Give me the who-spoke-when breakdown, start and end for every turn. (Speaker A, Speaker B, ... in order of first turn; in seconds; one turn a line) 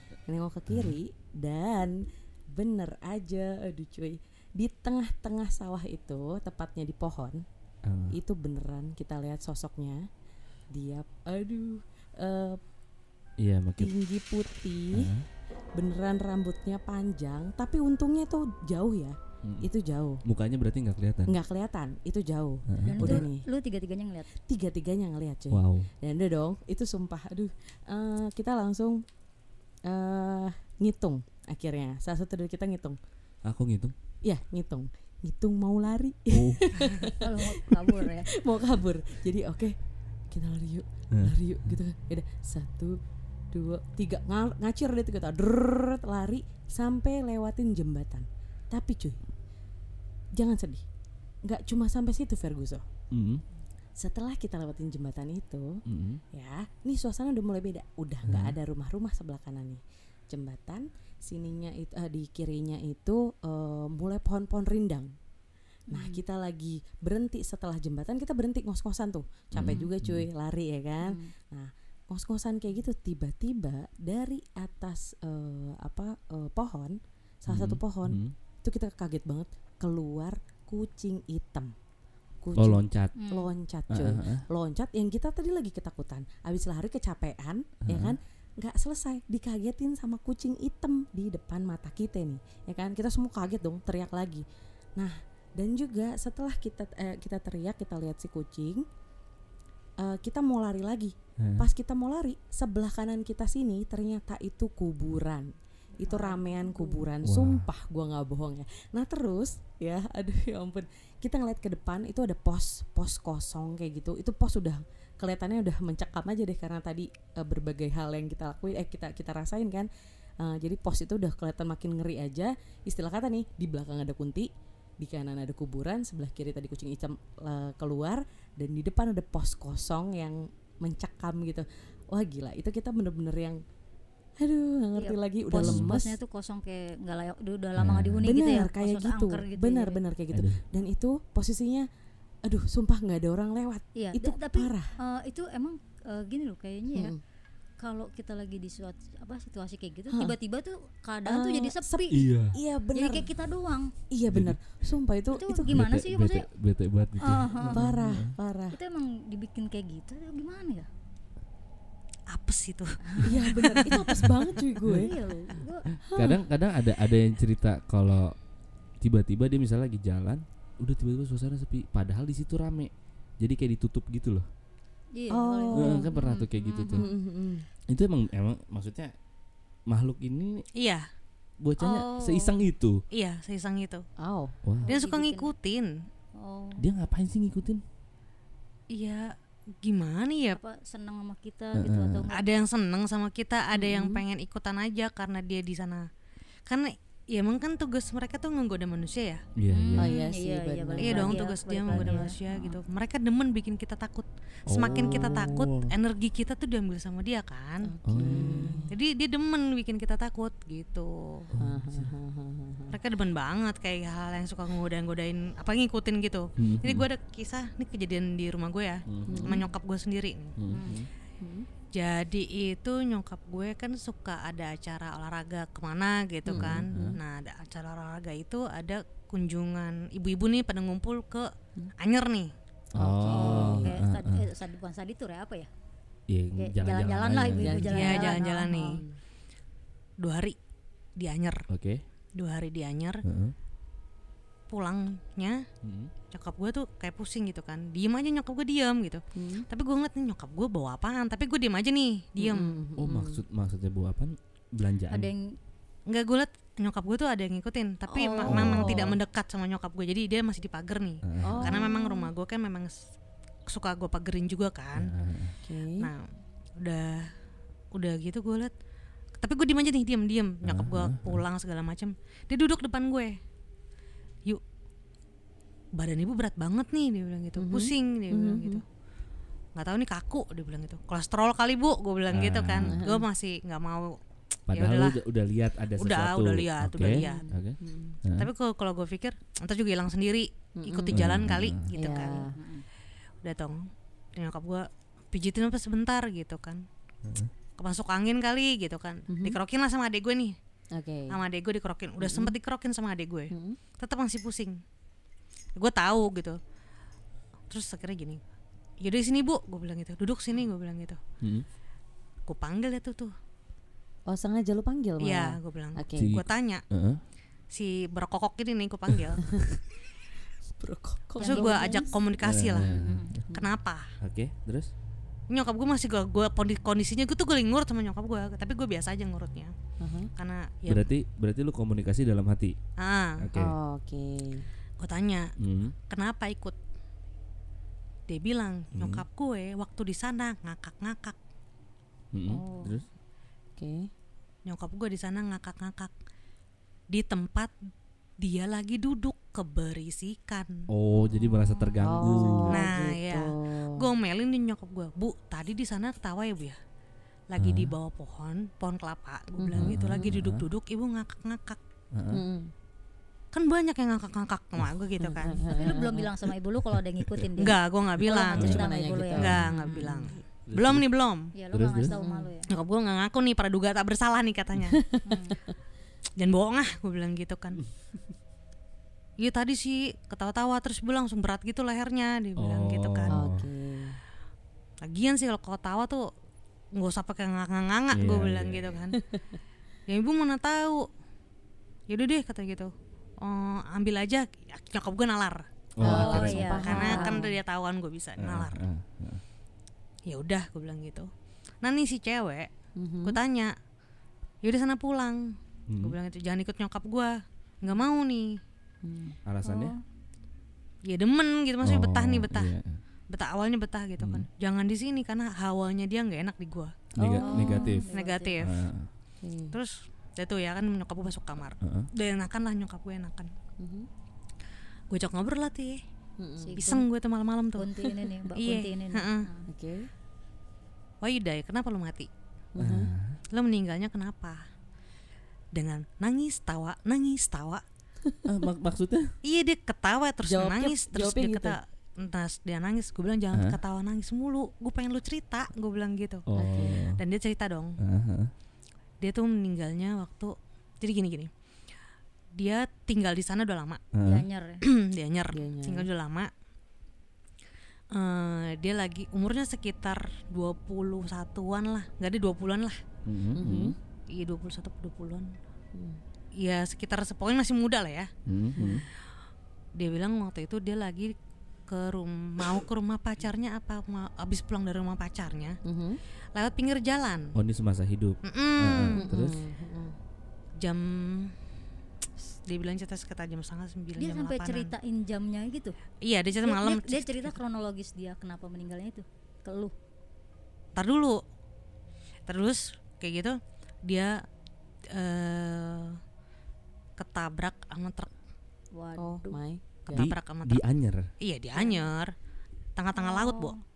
Speaker A: 0.3-7.4
Speaker B: 0.7-1.0
Speaker B: 7.8-8.2
Speaker A: 8.1-10.1
Speaker A: 10.7-12.6
Speaker B: 13.4-13.9
Speaker A: 13.8-15.1
Speaker B: 14.9-15.3
Speaker A: 15.8-20.2
Speaker B: 19.4-19.7
Speaker B: 20.2-21.4
Speaker A: 21.3-23.5
Speaker B: 22.7-23.3
Speaker C: 22.9-24.3
Speaker A: 24.4-29.0
Speaker B: 25.5-25.9
Speaker A: 29.9-33.0
Speaker B: 33.4-33.9
Speaker A: 34.2-39.8
Speaker B: 36.3-36.7
Speaker C: 37.2-38.3
Speaker A: 40.3-43.0
Speaker B: 41.1-41.7
Speaker A: 43.5-49.2
Speaker A: 50.3-50.9
Speaker A: 51.4-52.8
Speaker B: 53.1-53.4
Speaker A: 54.0-65.1
Speaker B: 55.9-56.2
Speaker B: 58.2-58.6
Speaker A: 65.9-81.7
Speaker C: 65.9-66.2
Speaker B: 69.5-70.3
Speaker C: 69.6-69.9
Speaker C: 71.0-71.3
Speaker B: 77.5-78.3
Speaker A: 82.4-94.5
Speaker B: 82.6-83.2
Speaker C: 83.2-83.5
Speaker B: 83.9-84.5
Speaker B: 87.8-88.2
Speaker A: 95.0-98.9
Speaker A: 100.0-119.9
Speaker B: 101.4-101.7
Speaker C: 106.0-107.1
Speaker B: 107.2-107.7
Speaker A: 120.4-124.5
Speaker A: 125.0-133.6
Speaker A: 134.4-136.2
Speaker C: 135.0-140.0
Speaker B: 135.6-135.9
Speaker B: 137.8-138.3
Speaker A: 138.2-141.9
Speaker B: 140.3-140.6
Speaker A: 142.4-144.9
Speaker C: 143.9-147.2
Speaker A: 146.9-147.2
Speaker C: 147.8-152.3
Speaker A: 150.1-150.4
Speaker A: 151.2-153.3
Speaker B: 152.1-152.6
Speaker C: 152.9-153.9
Speaker A: 154.1-155.8
Speaker B: 154.3-154.6
Speaker C: 155.3-156.5
Speaker B: 155.7-158.3
Speaker C: 157.2-157.9
Speaker A: 157.7-158.8
Speaker C: 158.7-160.9
Speaker D: 162.3-164.1
Speaker A: 163.2-165.1
Speaker C: 164.8-165.9
Speaker A: 166.1-166.4
Speaker B: 166.1-168.3
Speaker B: 169.0-174.5
Speaker C: 175.1-177.1
Speaker A: 175.3-176.1
Speaker B: 175.7-177.1
Speaker A: 176.9-177.7
Speaker B: 177.9-179.1
Speaker B: 179.9-180.7
Speaker D: 180.8-181.1
Speaker B: 181.6-183.0
Speaker C: 181.8-182.6
Speaker D: 183.1-184.0
Speaker A: 184.2-184.6
Speaker B: 184.6-184.9
Speaker C: 184.8-185.5
Speaker D: 184.9-186.1
Speaker C: 186.4-186.8
Speaker B: 186.8-187.8
Speaker D: 188.9-190.6
Speaker C: 190.6-192.6
Speaker B: 191.8-192.3
Speaker D: 192.3-196.1
Speaker A: 193.7-194.2
Speaker D: 196.7-199.4
Speaker B: 199.6-200.1
Speaker C: 199.7-202.4
Speaker A: 200.0-201.5
Speaker D: 201.0-211.5
Speaker B: 204.7-205.9
Speaker A: 204.9-205.4
Speaker A: 207.8-208.9
Speaker B: 208.1-208.8
Speaker B: 211.5-212.1
Speaker A: 211.6-213.0
Speaker D: 212.9-220.6
Speaker B: 216.6-217.1
Speaker B: 219.1-219.6
Speaker A: 219.3-219.7
Speaker B: 220.6-221.1
Speaker C: 220.7-221.0
Speaker A: 221.4-221.7
Speaker D: 221.9-232.5
Speaker A: 226.5-226.9
Speaker B: 226.5-227.2
Speaker A: 232.9-234.0
Speaker B: 232.9-234.5
Speaker C: 233.3-235.7
Speaker B: 236.3-237.9
Speaker C: 236.6-238.6
Speaker A: 237.6-239.2
Speaker D: 237.9-239.0
Speaker D: 240.2-240.6
Speaker D: 241.2-241.7
Speaker B: 241.7-242.0
Speaker D: 242.4-243.2
Speaker B: 243.2-243.5
Speaker D: 244.7-245.6
Speaker B: 245.8-246.1
Speaker D: 246.3-252.8
Speaker A: 249.3-249.7
Speaker A: 252.4-253.4
Speaker B: 253.0-255.3
Speaker C: 255.1-255.6
Speaker D: 256.1-263.0
Speaker C: 258.1-259.0
Speaker B: 258.5-259.0
Speaker A: 258.5-259.2
Speaker B: 261.2-261.7
Speaker A: 261.4-262.2
Speaker D: 263.7-265.1
Speaker B: 265.0-265.6
Speaker A: 265.6-266.1
Speaker D: 266.0-266.3
Speaker D: 266.8-267.3
Speaker D: 267.9-268.7
Speaker D: 269.4-273.4
Speaker B: 270.6-271.4
Speaker D: 275.9-278.8
Speaker A: 277.6-278.8
Speaker D: 279.8-284.2
Speaker B: 282.3-283.0
Speaker A: 282.8-283.3
Speaker B: 284.7-288.5
Speaker D: 284.7-285.2
Speaker D: 285.9-287.5
Speaker A: 287.1-288.2
Speaker D: 288.4-292.5
Speaker A: 290.8-291.3
Speaker B: 291.1-291.9
Speaker A: 291.9-292.6
Speaker C: 292.4-292.9
Speaker D: 293.4-296.9
Speaker B: 297.2-297.5
Speaker D: 297.8-300.6
Speaker A: 299.3-299.6
Speaker A: 300.9-301.4
Speaker D: 301.3-304.8
Speaker A: 302.2-302.6
Speaker A: 303.5-303.8
Speaker D: 305.8-306.6
Speaker D: 307.7-308.4
Speaker D: 309.0-311.2
Speaker D: 312.5-313.3
Speaker A: 314.3-316.4
Speaker D: 315.2-316.8
Speaker B: 316.2-317.2
Speaker D: 317.7-319.4
Speaker A: 320.8-322.0
Speaker C: 321.4-322.2
Speaker D: 321.4-322.9
Speaker B: 322.4-323.4
Speaker C: 322.8-323.4
Speaker D: 323.5-324.1
Speaker B: 324.2-324.9
Speaker D: 325.5-329.7
Speaker A: 330.0-330.3
Speaker D: 330.4-331.1
Speaker B: 330.9-332.8
Speaker D: 333.0-333.5
Speaker B: 333.4-333.7
Speaker A: 333.6-334.7
Speaker D: 335.0-335.5
Speaker B: 335.6-335.9
Speaker D: 336.1-336.8
Speaker D: 338.3-341.4
Speaker B: 338.9-339.2
Speaker B: 342.3-343.1
Speaker A: 342.5-342.9
Speaker A: 343.8-344.1
Speaker D: 344.7-346.1
Speaker D: 347.1-347.7
Speaker D: 348.4-350.9
Speaker B: 350.9-352.8
Speaker C: 351.6-352.1
Speaker A: 352.0-354.1
Speaker D: 352.7-356.8
Speaker D: 357.5-361.8
Speaker B: 357.6-357.9
Speaker A: 359.6-360.3
Speaker B: 359.7-360.7
Speaker B: 362.1-362.4
Speaker A: 362.3-362.7
Speaker D: 363.5-365.7
Speaker A: 365.2-366.3
Speaker C: 365.7-370.3
Speaker D: 367.6-371.5
Speaker A: 368.3-370.4
Speaker B: 369.4-369.8
Speaker B: 370.7-371.1
Speaker C: 371.6-372.7
Speaker B: 371.7-372.1
Speaker A: 372.1-372.5
Speaker D: 372.7-375.0
Speaker A: 374.9-375.5
Speaker C: 375.2-375.6
Speaker D: 376.4-377.8
Speaker D: 379.4-383.4
Speaker B: 382.6-383.7
Speaker A: 383.3-384.2
Speaker D: 385.0-386.3
Speaker D: 386.9-389.2
Speaker B: 388.1-389.0
Speaker A: 389.2-389.6
Speaker D: 390.1-391.1
Speaker D: 392.1-396.3
Speaker B: 396.0-397.0
Speaker A: 396.0-397.6
Speaker C: 396.0-397.4
Speaker D: 396.8-398.8
Speaker B: 398.4-399.4
Speaker D: 400.3-401.3
Speaker D: 401.8-402.7
Speaker A: 403.0-403.4
Speaker D: 403.2-403.8
Speaker D: 404.6-408.6
Speaker B: 405.9-406.2
Speaker A: 409.0-409.4
Speaker B: 409.5-409.9
Speaker C: 409.6-410.0
Speaker D: 411.1-412.7
Speaker B: 411.8-413.0
Speaker D: 413.3-418.8
Speaker B: 414.2-414.5
Speaker B: 417.1-418.1
Speaker C: 417.2-418.6
Speaker B: 418.6-419.1
Speaker A: 419.4-419.8
Speaker D: 419.7-423.5
Speaker B: 421.8-422.1
Speaker A: 423.8-424.1
Speaker D: 425.1-426.0
Speaker A: 426.4-426.8
Speaker C: 426.6-427.1
Speaker D: 426.8-427.9
Speaker C: 427.8-429.7
Speaker D: 428.6-429.5
Speaker A: 429.7-430.1
Speaker D: 431.2-432.3
Speaker A: 432.8-433.1
Speaker B: 432.8-433.4
Speaker D: 433.5-434.6
Speaker D: 435.7-437.8
Speaker B: 438.4-439.3
Speaker D: 439.4-446.5
Speaker A: 440.4-441.8
Speaker B: 443.5-443.8
Speaker B: 446.5-447.2
Speaker A: 446.6-447.1
Speaker D: 447.0-448.0
Speaker B: 448.0-448.5
Speaker D: 449.2-451.5
Speaker D: 452.6-454.1
Speaker B: 454.1-454.5
Speaker C: 454.2-454.8
Speaker D: 454.8-456.5
Speaker A: 455.5-456.1
Speaker D: 458.1-463.0
Speaker B: 463.2-464.0
Speaker A: 463.5-464.0
Speaker D: 464.3-465.6
Speaker A: 465.9-466.2
Speaker D: 466.6-468.3
Speaker B: 468.5-469.1
Speaker A: 468.8-469.1
Speaker D: 470.0-471.3
Speaker D: 471.9-475.8
Speaker A: 475.8-476.2
Speaker D: 476.6-477.6
Speaker B: 477.6-479.6
Speaker D: 478.4-479.2
Speaker A: 479.2-480.2
Speaker D: 480.8-481.5
Speaker D: 482.5-484.9
Speaker C: 484.2-486.0
Speaker D: 486.2-487.6
Speaker C: 486.6-489.9
Speaker D: 490.9-491.4
Speaker D: 492.5-494.4
Speaker D: 495.1-496.2
Speaker D: 497.2-498.3
Speaker C: 498.9-499.6
Speaker A: 499.2-500.3
Speaker D: 500.1-500.8
Speaker B: 500.1-501.3
Speaker D: 501.4-502.3
Speaker D: 503.0-503.8
Speaker C: 503.1-503.8